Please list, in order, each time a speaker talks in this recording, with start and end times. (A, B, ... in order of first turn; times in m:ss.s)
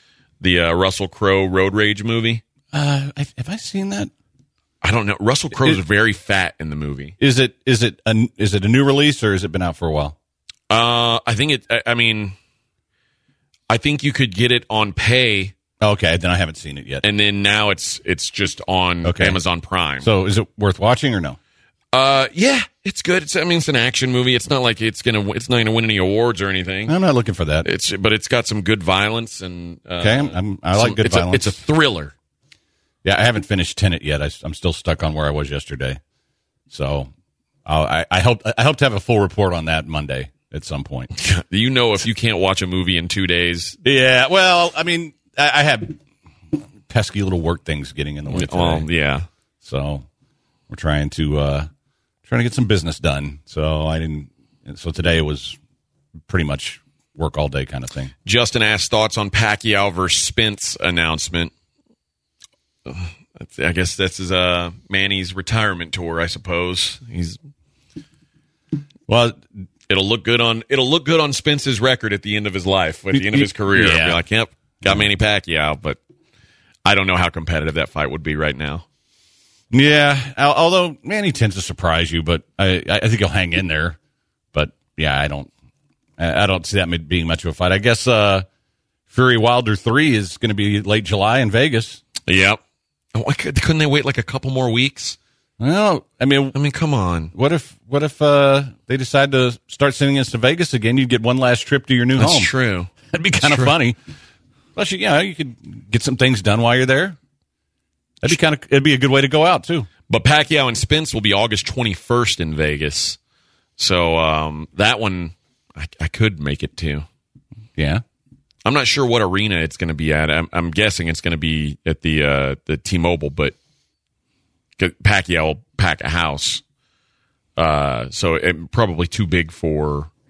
0:00.4-0:02.4 A
0:02.7-0:04.1 B
0:04.8-0:07.2 A
0:05.6-0:05.8 B
0:07.2-0:10.2 B
0:10.7-0:12.4 A
0:13.7-0:15.5 A
0:15.8-0:17.0 B
0:17.0-0:20.1 A
0:19.0-0:19.4 B
0:20.0-0:21.4 B
0:21.9-0:27.0 A
0:26.9-0:27.7 B
0:27.6-0:32.1 A
0:30.0-0:31.6 B
0:33.0-0:36.0 B
0:36.7-0:37.1 B
0:37.7-0:41.1 B
0:41.2-0:43.8 A
0:43.8-0:46.0 B
0:46.9-0:48.9 B
0:48.3-0:49.3 A
0:49.6-0:50.0 B
0:50.7-0:51.7 B
0:52.3-0:55.6 B
0:56.3-0:58.1 B
0:58.3-1:01.5 A
1:02.9-1:07.4 A
1:09.1-1:09.4 B
1:09.9-1:16.0 A
1:13.1-1:14.2 B
1:16.8-1:18.8 A
1:19.7-1:24.0 B
1:24.5-1:25.5 B
1:26.2-1:28.5 B
1:29.1-1:32.0 B
1:32.3-1:32.6 A
1:33.1-1:35.2 A
1:35.6-1:36.6 B
1:36.6-1:37.3 A
1:37.3-1:42.5 B
1:42.2-1:43.8 A
1:43.1-1:44.0 B
1:44.8-1:47.2 B
1:48.2-1:49.9 B
1:50.1-1:53.2 A
1:53.8-1:57.1 A
1:57.8-1:58.0 B
1:58.6-2:03.6 A
2:04.8-2:06.6 A
2:07.6-2:10.1 A